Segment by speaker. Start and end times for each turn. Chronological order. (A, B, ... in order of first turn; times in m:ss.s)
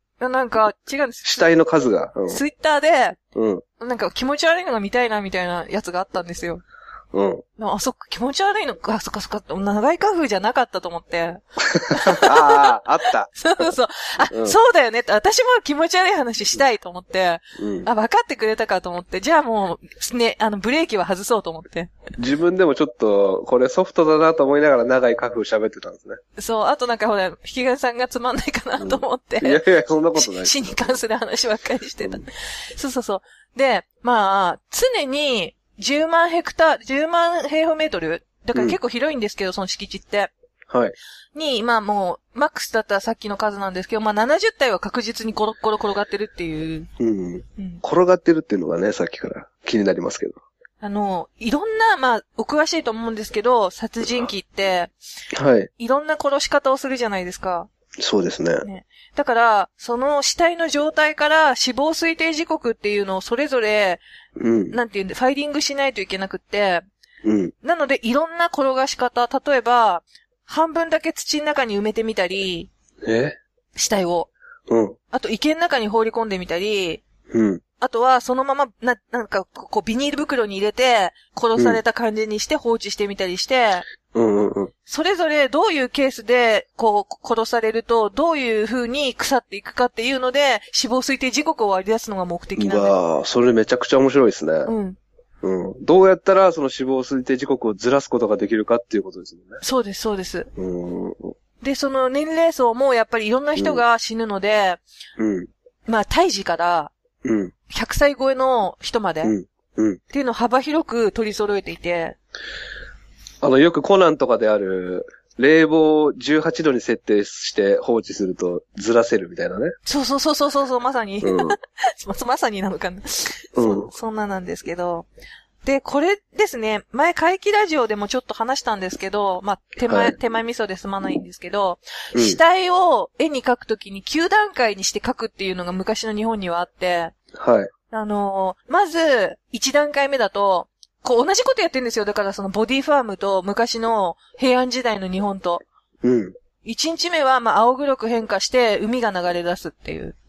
0:00.2-0:01.5 A
0:01.2-0:02.4 B
0:02.3-0:03.2 A
0:03.4-0:03.6 B
0:03.8-0:06.6 A
0:07.1-0:07.4 B
0:07.6-0:12.7 A
0:12.1-0:13.7 B
0:13.4-0:21.9 A
0:14.2-0:14.6 B
0:17.6-0:17.9 B
0:22.2-0:26.2 B
0:26.4-0:29.6 A
0:28.8-0:31.0 B
0:30.2-0:40.3 A
0:40.7-0:41.0 B
0:41.4-0:46.9 A
0:47.0-0:50.4 B
0:47.6-0:47.8 A
0:50.8-0:54.9 A
0:55.3-0:55.7 B
0:55.8-0:57.7 A
0:58.0-0:58.7 B
0:58.6-1:04.0 A
1:04.4-1:04.8 B
1:04.7-1:06.8 A
1:07.2-1:07.5 B
1:07.6-1:12.7 A
1:13.0-1:13.4 B
1:13.8-1:14.3 A
1:14.7-1:15.0 B
1:15.1-1:17.0 A
1:17.3-1:17.6 B
1:17.8-1:23.8 A
1:24.1-1:24.7 B
1:24.9-1:33.0 A
1:32.6-1:34.7 B
1:34.7-1:35.0 A
1:35.4-1:39.6 B
1:39.6-1:40.5 A
1:40.6-1:41.4 B
1:41.6-1:44.8 A
1:43.6-1:43.8 B
1:45.2-1:45.5 B
1:45.9-1:46.9 A
1:47.2-1:47.5 B
1:47.7-1:49.3 A
1:49.2-1:50.0 B
1:50.1-1:52.2 A
1:53.4-1:59.7 B
1:59.9-2:05.1 A
2:01.2-2:01.6 B
2:03.6-2:03.9 B
2:05.6-2:17.1 A
2:09.9-2:10.2 B
2:12.1-2:12.4 B
2:17.3-2:17.7 B
2:17.9-2:25.6 A
2:26.0-2:26.3 B
2:26.6-2:30.2 A